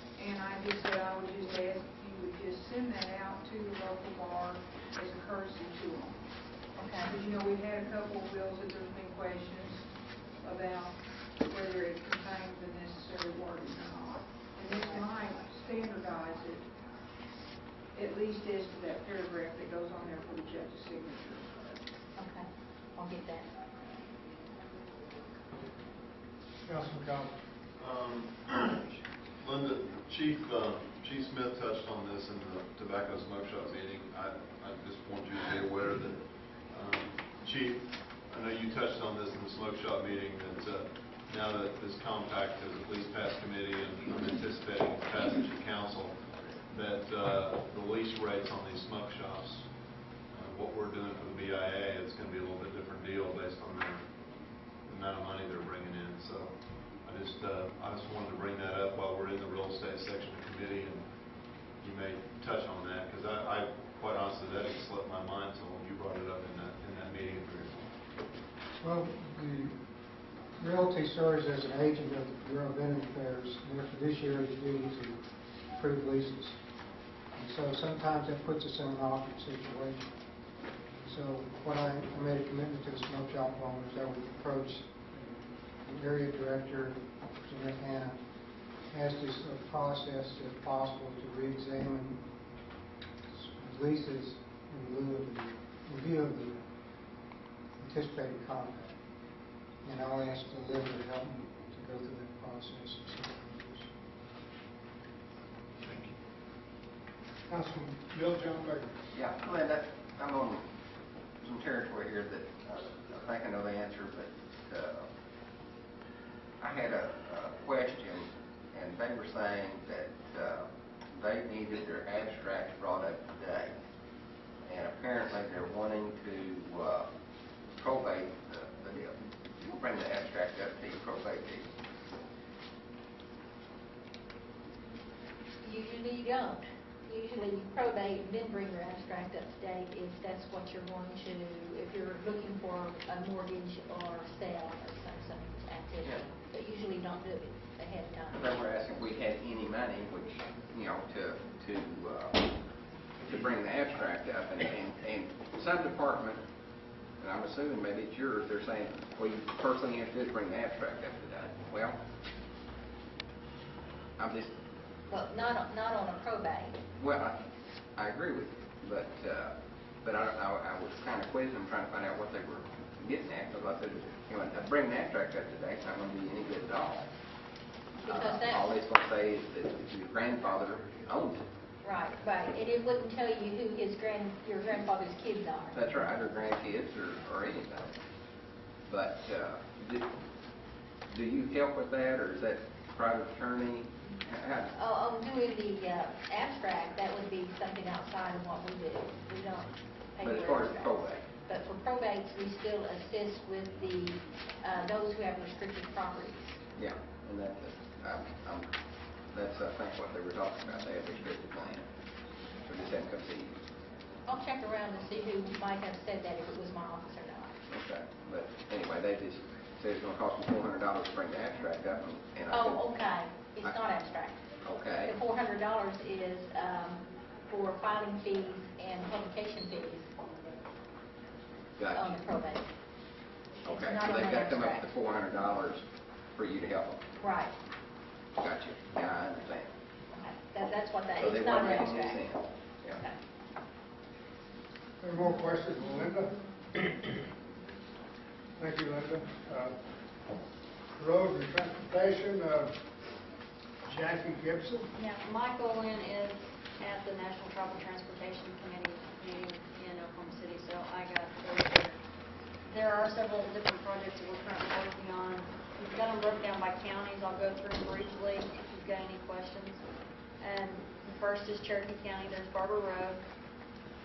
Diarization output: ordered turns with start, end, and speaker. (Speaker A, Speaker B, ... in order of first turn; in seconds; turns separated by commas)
Speaker A: 0.2-6.2, Speaker B: 6.8-7.1, Speaker A: 7.0-9.9, Speaker A: 10.4-16.7, Speaker B: 14.8-15.0, Speaker A: 17.9-21.8, Speaker B: 22.2-23.5, Speaker C: 26.7-27.3, Speaker D: 27.8-28.8, Speaker D: 29.4-49.7, Speaker D: 50.3-54.0, Speaker D: 54.9-61.1, Speaker D: 61.8-67.8, Speaker E: 68.8-69.7, Speaker E: 70.6-75.2, Speaker E: 75.7-76.6, Speaker E: 77.3-80.1, Speaker E: 81.0-88.2, Speaker E: 88.9-92.2, Speaker E: 93.3-96.7, Speaker E: 97.8-99.0, Speaker E: 99.8-103.9, Speaker C: 107.5-109.0, Speaker F: 109.1-110.7, Speaker F: 111.4-115.1, Speaker F: 116.6-123.7, Speaker F: 124.7-127.1, Speaker F: 127.8-131.7, Speaker B: 135.6-148.5, Speaker F: 148.4-152.4, Speaker F: 153.3-156.4, Speaker F: 157.2-162.0, Speaker F: 164.2-164.5, Speaker B: 165.1-166.8, Speaker F: 167.0-167.4, Speaker F: 168.0-177.1, Speaker B: 178.0-178.7, Speaker F: 178.1-181.4, Speaker B: 181.8-185.8, Speaker F: 185.7-187.9, Speaker F: 188.9-190.1, Speaker F: 191.1-194.7, Speaker B: 194.8-206.6, Speaker F: 200.2-201.2, Speaker F: 206.8-208.7, Speaker F: 209.3-211.9, Speaker F: 212.7-213.6, Speaker B: 214.3-217.6, Speaker F: 217.7-222.8, Speaker B: 222.5-224.4, Speaker F: 224.7-225.1, Speaker B: 225.1-230.1, Speaker F: 231.8-232.2, Speaker B: 231.9-232.6, Speaker B: 233.7-234.9, Speaker F: 233.7-235.8, Speaker F: 236.4-237.0, Speaker B: 237.2-237.5, Speaker F: 238.4-239.7, Speaker B: 240.2-242.3, Speaker F: 241.2-243.0, Speaker C: 245.0-246.9, Speaker C: 248.6-249.7, Speaker C: 251.0-252.8, Speaker C: 253.9-254.9, Speaker G: 255.0-262.0, Speaker G: 262.7-269.8, Speaker G: 270.4-273.2